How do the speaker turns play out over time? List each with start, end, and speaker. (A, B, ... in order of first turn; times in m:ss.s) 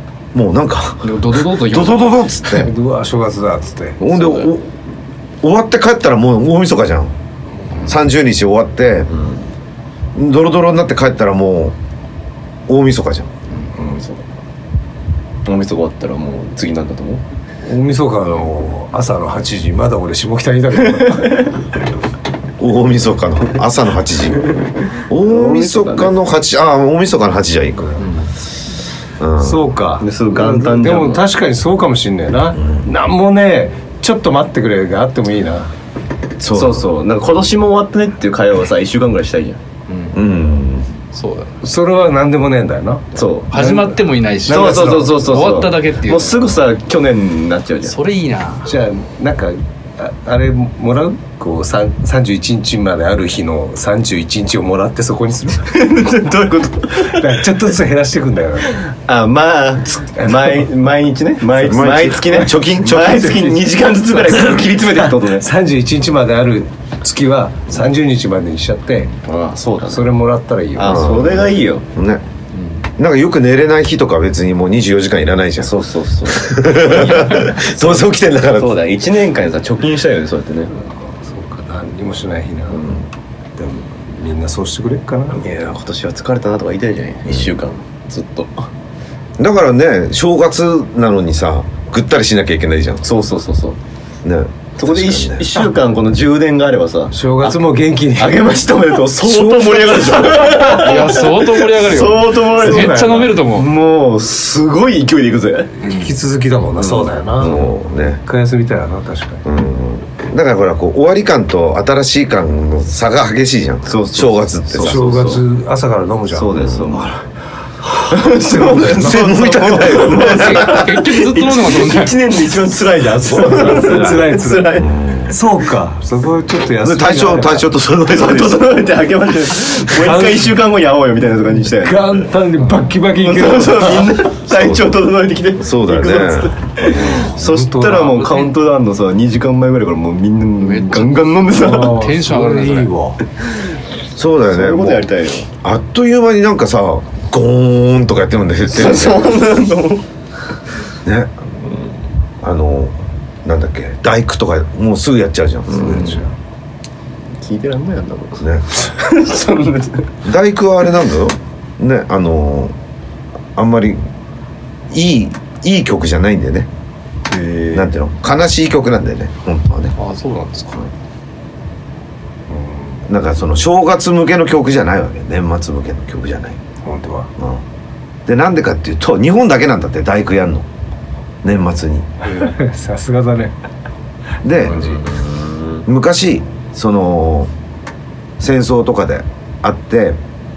0:00.3-0:02.7 A
0:01.0-0:02.6 B
0:02.5-0:04.0 C
0:04.0-0:04.7 A
0:04.2-0:04.5 D
0:05.4-0:07.1 A
0:07.8-0:09.1 A
0:09.1-0:09.4 D
0:10.1-0:11.8 A
0:12.7-0:13.3 A
0:13.7-0:14.2 D
0:15.4-0:17.2 D
0:17.6-0:21.5 C
0:22.6-0:28.0 A
0:25.1-0:26.1 D
0:29.2-0:29.7 A
0:29.4-0:35.7 C
0:30.0-0:31.2 D
0:36.4-0:36.8 A
0:36.5-0:39.6 D
0:39.9-0:40.3 B
0:40.1-0:40.9 A
0:41.1-0:41.5 B
0:41.6-0:45.1 C
0:43.1-0:43.6 D
0:43.5-0:46.5 B
0:44.4-0:48.0 D
0:47.8-0:48.8 B
0:48.6-0:55.8 C
0:55.7-0:57.4 D
0:56.9-0:58.8 C
0:58.9-1:05.5 D
1:00.2-1:00.5 C
1:01.6-1:03.4 A
1:01.6-1:09.1 C
1:09.2-1:10.1 D
1:09.9-1:11.1 C
1:10.7-1:11.8 D
1:10.8-1:12.2 A
1:13.0-1:15.7 A
1:15.6-1:20.7 D
1:16.3-1:18.8 A
1:21.1-1:23.0 C
1:23.6-1:25.4 C
1:25.4-1:28.7 D
1:29.4-1:33.0 A
1:33.0-1:33.8 D
1:34.2-1:35.6 A
1:34.8-1:45.8 D
1:37.1-1:38.5 C
1:39.2-1:40.8 C
1:40.6-1:43.7 B
1:42.5-1:43.3 C
1:45.8-1:47.7 C
1:46.8-1:47.7 D
1:47.4-1:48.2 A
1:48.2-1:49.4 C
1:49.4-1:55.2 A
1:53.9-1:55.4 D
1:54.8-1:56.6 C
1:56.3-1:57.2 D
1:56.6-1:57.0 A
1:58.0-2:00.0 C
1:58.1-2:05.2 D
1:59.0-2:00.9 A
2:00.1-2:02.3 B
2:03.3-2:07.7 C
2:04.8-2:05.3 A
2:06.8-2:08.7 A
2:08.0-2:12.3 D
2:09.8-2:10.5 C
2:11.7-2:14.2 C
2:13.1-2:22.1 D
2:14.5-2:15.0 A
2:15.6-2:17.2 A
2:17.0-2:18.0 C
2:17.8-2:18.6 B
2:20.6-2:22.9 B
2:21.5-2:23.2 C
2:24.2-2:25.1 A
2:24.4-2:25.5 D
2:25.6-2:29.4 A
2:28.7-2:30.0 D
2:31.0-2:31.3 A
2:32.4-2:36.2 A
2:35.7-2:36.3 C
2:35.8-2:36.1 D
2:37.4-2:40.1 D
2:38.4-2:38.6 A
2:40.2-2:42.7 A
2:43.5-2:44.0 A
2:44.9-2:46.7 A
2:47.3-2:47.9 D
2:47.7-2:49.9 A
2:50.0-2:50.9 B
2:52.5-2:53.0 C
2:53.1-2:56.6 A
2:56.8-2:57.3 C
2:57.4-2:57.6 A
2:58.2-3:00.7 A
3:01.4-3:02.3 A
3:02.2-3:03.5 C
3:04.4-3:05.0 A
3:04.6-3:05.8 D
3:05.8-3:07.5 A
3:08.4-3:10.2 A